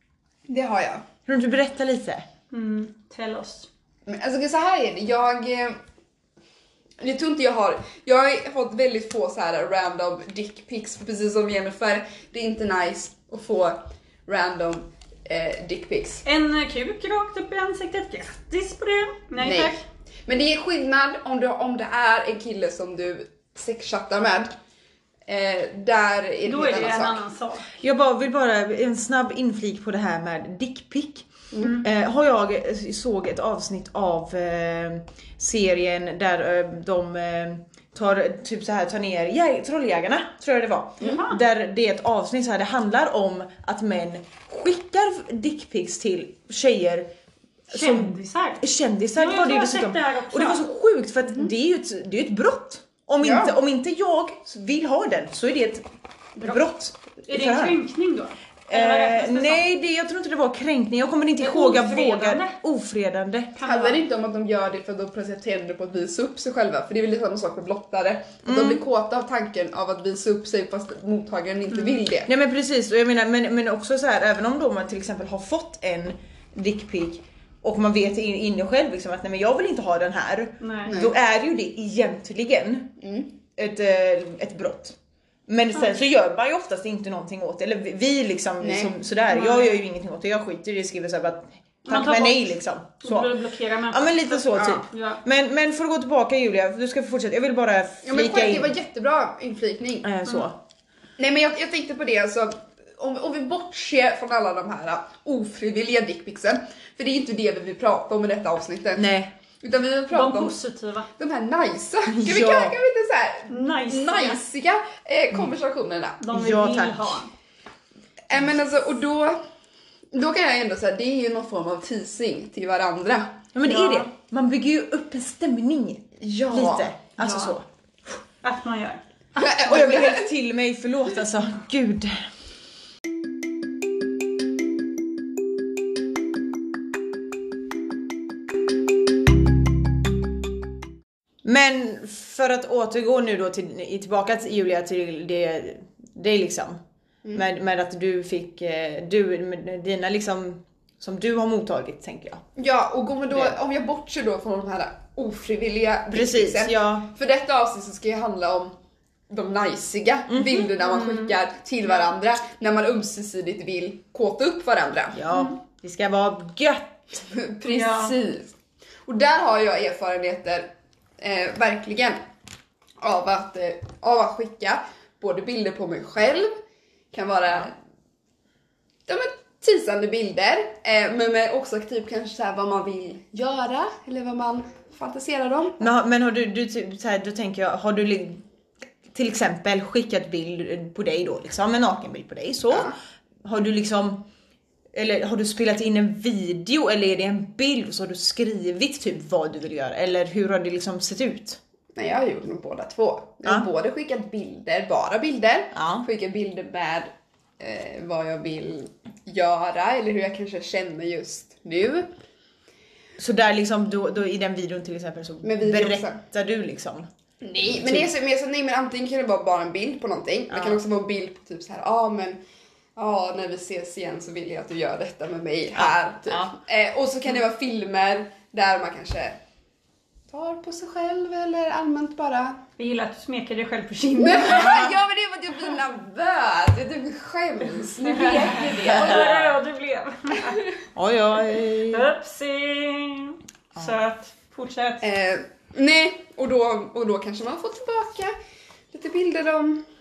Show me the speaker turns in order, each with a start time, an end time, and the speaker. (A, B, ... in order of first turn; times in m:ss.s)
0:00.5-0:01.0 A
0:01.2-0:02.2 B
0:02.5-0:03.7 C
0:04.0-0:05.8 A
0:07.0-0:16.2 A
0:16.2-0:19.8 C
0:19.4-0:24.5 A
0:25.2-0:27.2 A
0:26.4-0:27.7 C
0:27.8-0:47.1 B
0:31.6-0:31.8 C
0:41.0-0:41.4 C
0:47.7-0:48.6 C
0:47.7-0:55.8 B
0:49.2-0:50.6 C
0:53.2-0:53.5 A
0:56.4-0:57.8 B
0:57.3-0:59.6 C
0:58.7-1:03.5 B
1:01.4-1:02.6 C
1:03.6-1:04.0 C
1:03.6-1:12.3 A
1:08.4-1:08.8 B
1:12.3-1:22.9 B
1:20.6-1:20.9 C
1:20.9-1:21.1 A
1:23.0-1:23.3 A
1:23.5-1:33.3 B
1:28.6-1:28.9 A
1:29.3-1:29.8 C
1:31.8-1:32.5 C
1:33.0-1:35.2 C
1:33.9-1:38.7 B
1:34.5-1:34.8 A
1:38.0-1:40.1 A
1:40.0-1:40.6 B
1:41.2-1:50.5 A
1:49.0-1:49.3 B
1:50.1-1:51.1 C
1:51.2-1:56.2 A
1:52.1-1:52.8 B
1:53.5-1:54.4 C
1:56.2-1:57.3 C
1:56.3-1:57.2 B
1:58.3-1:59.4 A
2:00.1-2:03.4 A
2:03.5-2:07.6 B
2:03.6-2:04.1 C
2:06.2-2:06.9 A
2:07.2-2:07.5 C
2:08.4-2:09.6 C
2:09.4-2:10.3 A
2:09.6-2:12.3 B
2:21.4-2:26.8 B
2:27.3-2:32.4 B
2:32.6-2:38.7 A
2:36.1-2:37.1 B
2:39.3-2:45.2 A
2:40.3-2:40.7 B
2:40.8-2:41.3 C
2:45.1-2:47.2 B
2:45.3-2:45.6 C
2:47.3-2:48.5 A
2:47.6-2:48.1 C
2:49.0-2:52.2 A
2:53.0-2:56.5 A
2:57.1-2:57.7 A
2:59.1-3:05.9 A
3:05.8-3:08.4 B
3:09.1-3:12.9 B
3:12.7-3:13.0 A
3:13.4-3:14.2 B
3:14.9-3:21.6 B
3:22.0-3:32.1 A
3:25.7-3:26.0 B
3:33.2-3:37.1 B
3:35.4-3:36.2 A
3:37.4-3:42.4 A
3:37.7-3:38.1 B
3:40.5-3:40.8 B
3:43.0-3:49.4 A
3:45.8-3:46.5 B
3:50.3-3:52.6 A
3:52.8-3:54.8 C
3:54.2-3:59.3 A
3:54.6-3:54.9 B
3:58.0-4:00.6 C
3:58.8-3:59.5 B
4:00.9-4:02.1 B
4:01.9-4:05.0 C
4:05.0-4:08.3 A
4:08.9-4:09.8 A